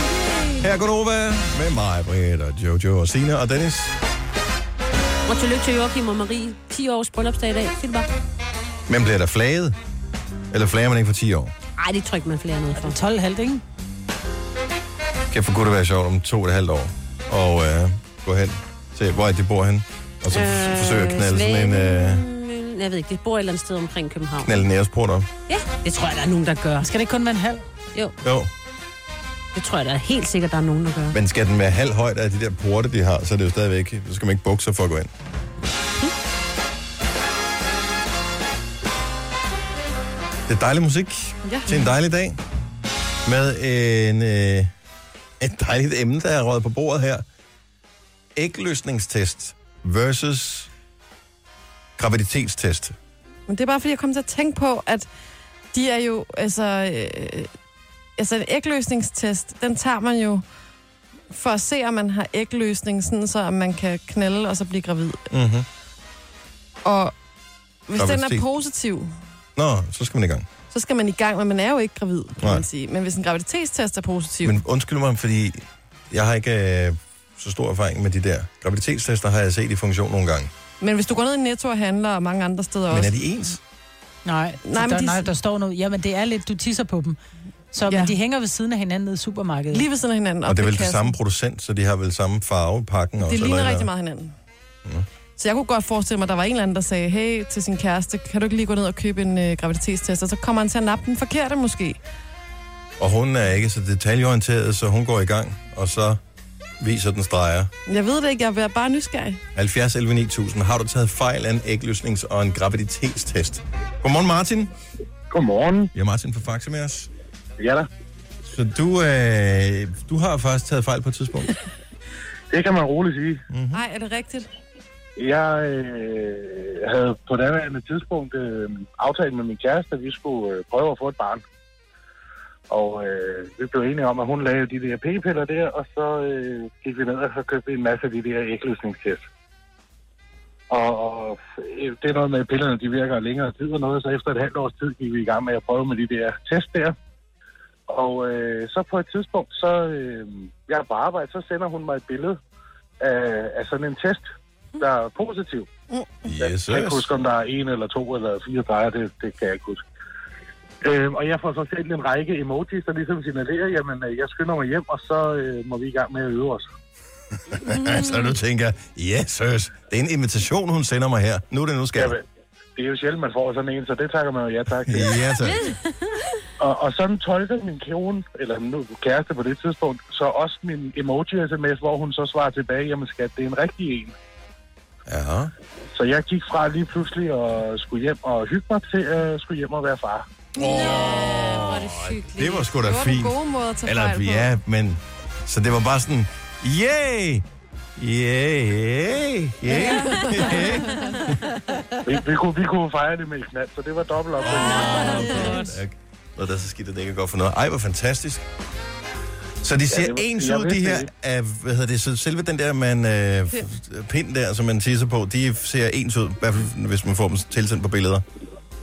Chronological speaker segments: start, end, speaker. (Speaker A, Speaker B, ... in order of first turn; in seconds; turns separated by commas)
Speaker A: 0.3-0.6, Speaker B: 0.6-4.0, Speaker C: 5.3-8.1, Speaker B: 8.9-9.8, Speaker B: 10.5-11.5, Speaker C: 11.8-13.0, Speaker D: 12.8-13.6, Speaker B: 15.3-22.2, Speaker C: 20.3-24.6, Speaker B: 24.4-25.3, Speaker C: 25.5-26.9, Speaker D: 26.8-27.7, Speaker B: 28.2-28.5, Speaker C: 29.6-31.2, Speaker B: 31.1-35.1, Speaker B: 40.5-42.4, Speaker A: 41.5-41.9, Speaker B: 43.2-44.7, Speaker B: 45.4-47.2, Speaker B: 48.4-50.7, Speaker B: 52.0-53.0, Speaker A: 53.5-55.1, Speaker A: 55.7-57.5, Speaker A: 58.2-60.4, Speaker A: 61.3-65.3, Speaker B: 65.3-65.7, Speaker A: 66.8-67.1, Speaker A: 67.9-69.1, Speaker B: 68.0-68.5, Speaker B: 69.6-70.5, Speaker A: 70.7-74.6, Speaker B: 72.4-72.7, Speaker B: 74.4-80.5, Speaker A: 80.8-83.1, Speaker B: 82.9-83.6, Speaker D: 84.3-87.2, Speaker A: 84.7-85.3, Speaker D: 87.7-89.9, Speaker A: 87.9-88.2, Speaker A: 89.7-91.2, Speaker B: 90.5-93.9, Speaker A: 93.2-94.3, Speaker A: 95.4-102.0, Speaker B: 103.0-106.2, Speaker B: 106.8-107.7, Speaker A: 107.9-109.4, Speaker B: 109.5-114.7, Speaker E: 115.3-115.9, Speaker B: 116.0-117.1, Speaker E: 117.6-117.9, Speaker B: 118.4-121.5, Speaker E: 122.5-123.4, Speaker B: 123.5-123.8, Speaker A: 123.7-124.5, Speaker E: 125.2-131.4, Speaker E: 132.7-139.3, Speaker E: 140.7-146.9, Speaker E: 147.9-152.4, Speaker E: 153.0-155.7, Speaker B: 156.2-157.1, Speaker E: 156.4-159.8, Speaker E: 160.8-166.7, Speaker B: 167.5-172.2, Speaker E: 172.0-172.2, Speaker E: 172.8-175.2, Speaker B: 174.8-175.7, Speaker C: 175.5-175.8, Speaker E: 176.6-184.1, Speaker B: 185.1-185.5, Speaker E: 185.9-190.3, Speaker B: 190.6-197.4, Speaker C: 190.6-192.7, Speaker A: 192.8-194.5, Speaker B: 198.0-201.3, Speaker C: 199.8-201.2, Speaker A: 200.2-201.1, Speaker E: 202.1-205.2, Speaker B: 204.4-208.4, Speaker C: 204.4-205.8, Speaker A: 205.3-205.6, Speaker B: 209.6-218.2, Speaker E: 209.9-211.1